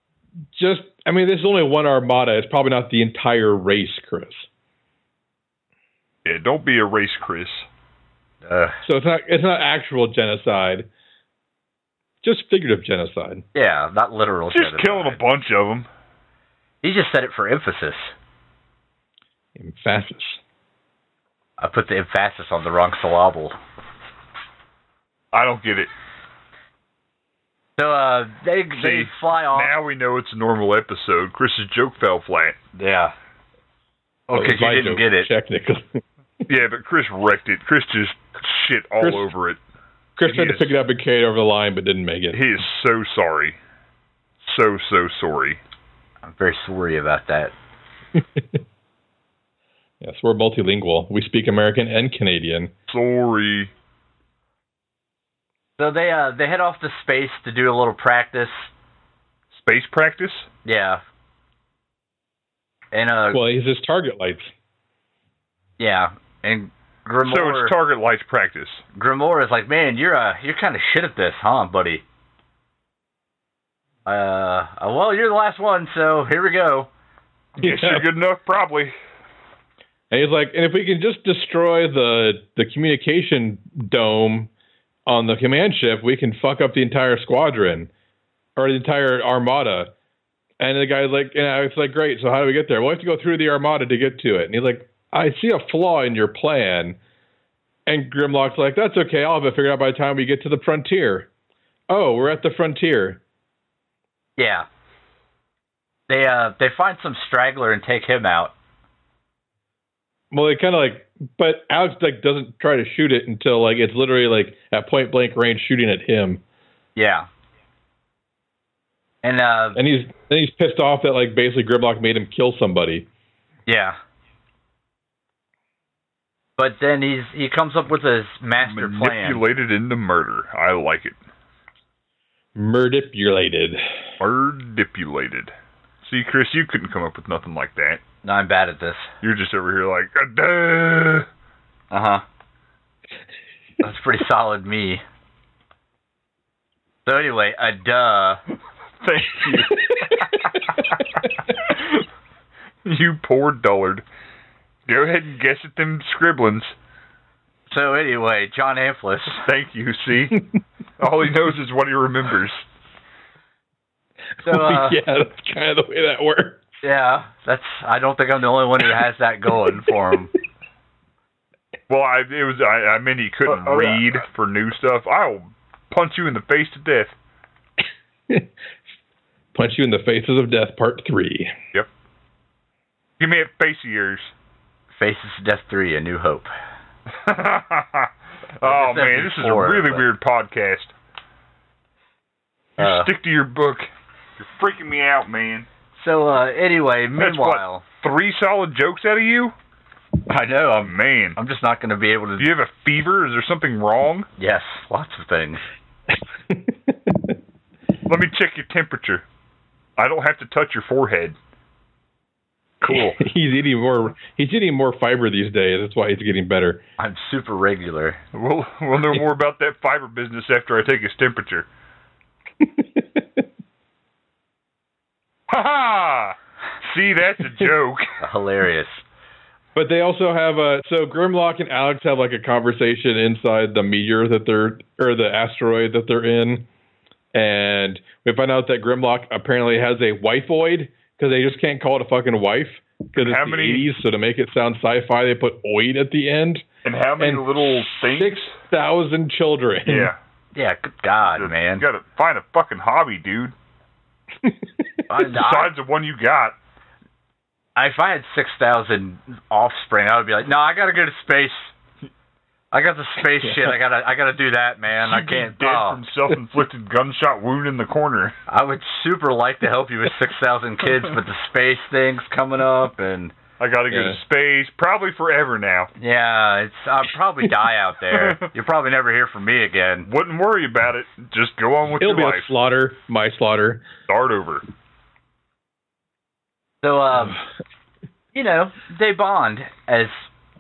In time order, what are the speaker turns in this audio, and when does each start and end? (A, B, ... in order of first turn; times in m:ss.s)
0:00.5-0:04.5 A
0:06.2-0:07.7 B
0:08.4-0:08.8 C
0:08.8-0:10.9 A
0:12.2-0:13.4 A
0:13.6-0:15.2 C
0:14.5-0:15.9 B
0:16.8-0:18.1 C
0:19.6-0:20.4 A
0:21.6-0:23.6 C
0:25.3-0:25.9 B
0:27.8-0:29.7 C
0:28.8-0:32.6 B
0:32.8-0:33.1 C
0:34.3-0:35.3 C
0:34.3-0:36.0 A
0:36.5-0:39.6 B
0:39.0-0:39.3 A
0:40.2-0:42.4 A
0:40.3-0:40.8 B
0:42.3-0:43.6 B
0:44.4-0:45.6 B
0:46.2-0:47.5 C
0:48.2-0:48.6 A
0:50.0-0:52.7 A
0:52.9-0:53.7 B
0:55.8-0:58.7 C
0:59.5-1:00.5 B
1:00.6-1:01.0 C
1:02.9-1:03.4 C
1:03.3-1:04.5 A
1:05.8-1:07.8 C
1:07.2-1:08.8 B
1:09.0-1:12.0 C
1:14.1-1:16.9 C
1:17.6-1:19.0 B
1:17.6-1:18.1 A
1:20.1-1:24.5 A
1:25.1-1:27.9 A
1:28.6-1:29.9 A
1:30.6-1:37.0 A
1:37.9-1:41.3 A
1:41.9-1:43.2 A
1:44.4-1:44.7 C
1:46.1-1:48.5 C
1:50.3-1:56.4 A
1:57.0-1:57.3 C
1:59.2-1:59.8 C
1:59.8-2:03.1 A
2:03.7-2:04.0 C
2:06.6-2:09.4 C
2:08.6-2:11.2 B
2:12.6-2:14.0 A
2:14.2-2:18.0 B
2:18.2-2:19.1 C
2:19.2-2:21.3 B
2:21.9-2:22.2 C
2:23.8-2:25.0 C
2:27.1-2:28.4 C
2:29.0-2:31.0 B
2:31.6-2:31.9 B
2:32.9-2:34.0 B
2:34.9-2:36.8 B
2:37.7-2:39.4 C
2:39.3-2:40.4 B
2:41.0-2:42.6 B
2:44.4-2:46.6 A
2:44.4-2:45.0 C
2:46.8-2:50.3 C
2:51.9-2:57.2 B
2:53.5-2:54.0 C
2:59.5-3:01.6 A
3:03.2-3:04.3 B
3:05.0-3:06.5 C
3:07.2-3:08.1 B
3:08.6-3:10.9 B
3:08.6-3:10.0 C
3:12.8-3:13.1 C
3:12.8-3:15.7 B
3:16.0-3:17.8 C
3:17.2-3:19.5 B
3:20.3-3:22.5 C
3:20.8-3:21.4 B
3:22.4-3:24.3 B
3:24.4-3:25.6 C
3:26.5-3:27.4 A
3:28.1-3:29.2 B
3:30.0-3:31.4 B
3:32.8-3:33.2 C
3:32.9-3:36.8 A
3:37.0-3:38.2 C
3:38.3-3:41.7 B
3:42.6-3:43.4 A
3:45.5-3:48.2 B
3:48.2-3:49.0 C
3:49.8-3:56.7 A
3:57.3-4:06.7 A
4:03.2-4:03.8 B
4:06.8-4:08.5 B
4:07.2-4:10.1 A
4:09.9-4:10.2 B
4:10.6-4:11.8 C
4:11.3-4:13.5 B
4:15.1-4:15.7 C
4:15.3-4:16.6 B
4:17.8-4:21.7 C
4:22.7-4:26.0 C
4:25.0-4:28.4 B
4:28.5-4:33.3 C
4:33.6-4:35.9 B
4:33.9-4:34.2 A
4:36.0-4:40.1 C
4:40.1-4:42.5 B
4:42.0-4:43.8 A
4:44.1-4:44.6 B
4:46.8-4:47.4 C
4:48.3-4:50.3 C